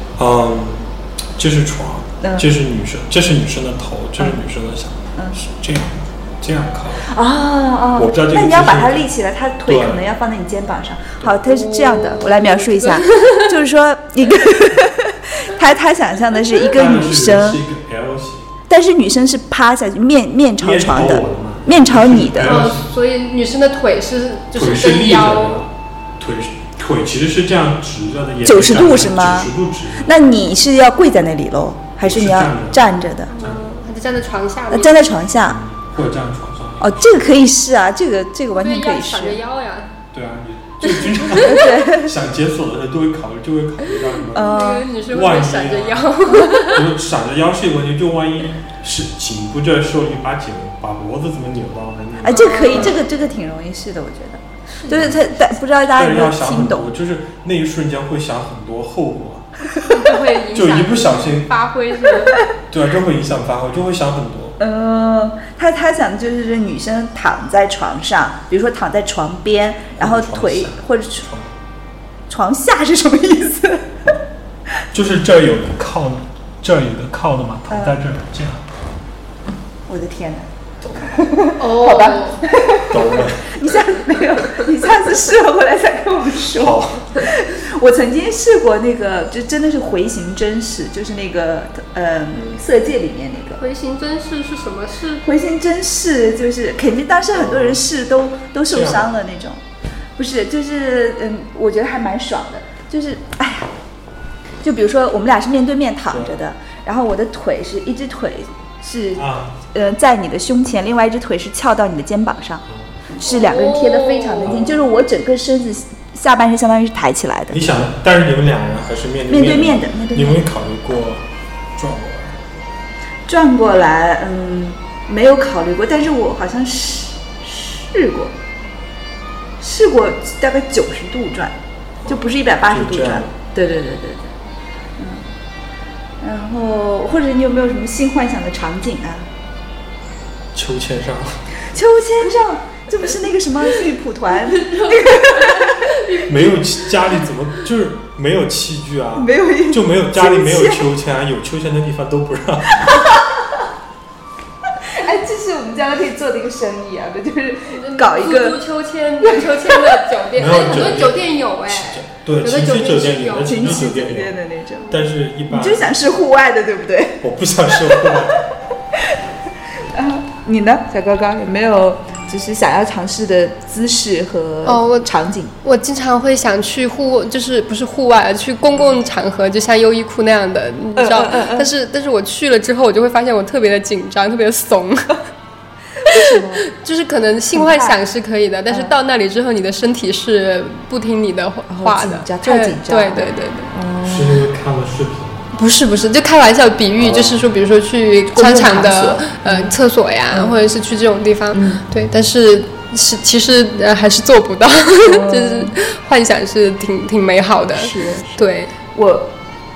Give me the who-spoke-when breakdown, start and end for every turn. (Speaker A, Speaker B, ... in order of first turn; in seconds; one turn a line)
Speaker A: 0.2-7.1
Speaker B: 2.2-2.5
Speaker B: 5.2-5.5
Speaker B: 7.0-17.6
Speaker A: 7.9-9.1
Speaker A: 9.7-10.0
Speaker C: 11.5-13.5
Speaker A: 16.6-18.5
Speaker B: 18.7-22.7
Speaker A: 20.6-22.9
Speaker C: 22.4-25.6
Speaker A: 24.6-30.2
Speaker B: 28.4-29.5
Speaker B: 30.0-33.3
Speaker A: 32.0-32.9
Speaker C: 33.3-35.0
Speaker B: 34.7-35.6
Speaker A: 35.5-37.3
Speaker B: 36.8-39.4
Speaker C: 38.6-39.9
Speaker A: 40.1-53.0
Speaker C: 41.0-41.6
Speaker B: 41.4-42.1
Speaker B: 44.3-44.9
Speaker C: 44.4-46.9
Speaker B: 52.2-56.9
Speaker C: 52.3-53.0
Speaker C: 54.8-55.1
Speaker A: 54.9-55.2
Speaker A: 55.9-59.5
Speaker C: 59.8-62.4
Speaker A: 60.5-61.5
Speaker A: 62.7-64.6
Speaker B: 64.6-71.3
Speaker A: 70.0-71.5
Speaker B: 72.3-74.1
Speaker A: 74.9-78.6
Speaker B: 77.7-78.0
Speaker B: 79.9-80.5
Speaker A: 80.8-81.2
Speaker B: 81.0-93.6
Speaker C: 81.6-82.4
Speaker A: 82.9-83.6
Speaker A: 86.5-87.2
Speaker C: 93.6-95.2
Speaker B: 95.2-99.6
Speaker A: 97.3-97.8
Speaker A: 98.7-99.1
Speaker B: 100.2-103.7
Speaker B: 104.6-112.6
Speaker A: 109.2-109.6
Speaker B: 113.1-117.7
Speaker C: 113.2-114.5
Speaker A: 114.4-114.8
Speaker A: 117.5-122.5
Speaker B: 119.3-120.4
Speaker B: 123.3-128.3
Speaker B: 129.6-134.3
Speaker A: 132.0-133.3
Speaker B: 135.0-135.3
Speaker B: 136.2-139.3
Speaker A: 140.5-141.4
Speaker B: 141.7-145.9
Speaker C: 144.5-146.3
Speaker A: 146.2-153.2
Speaker B: 149.2-150.9
Speaker B: 152.8-153.7
Speaker B: 154.7-158.6
Speaker C: 157.7-163.8
Speaker B: 159.2-160.1
Speaker A: 160.4-165.9
Speaker B: 163.4-164.9
Speaker B: 165.5-168.2
Speaker A: 167.2-168.5
Speaker B: 168.9-169.2
Speaker B: 169.8-175.5
Speaker C: 174.7-175.1
Speaker C: 175.6-185.2
Speaker B: 181.0-181.7
Speaker B: 186.0-186.7
Speaker C: 186.1-193.7
Speaker B: 187.6-188.0
Speaker B: 191.7-194.5
Speaker A: 194.0-195.5
Speaker C: 195.5-208.7
Speaker A: 197.0-197.5
Speaker B: 198.3-199.8
Speaker B: 200.3-200.6
Speaker B: 201.5-201.8
Speaker B: 205.0-205.8
Speaker B: 207.8-209.3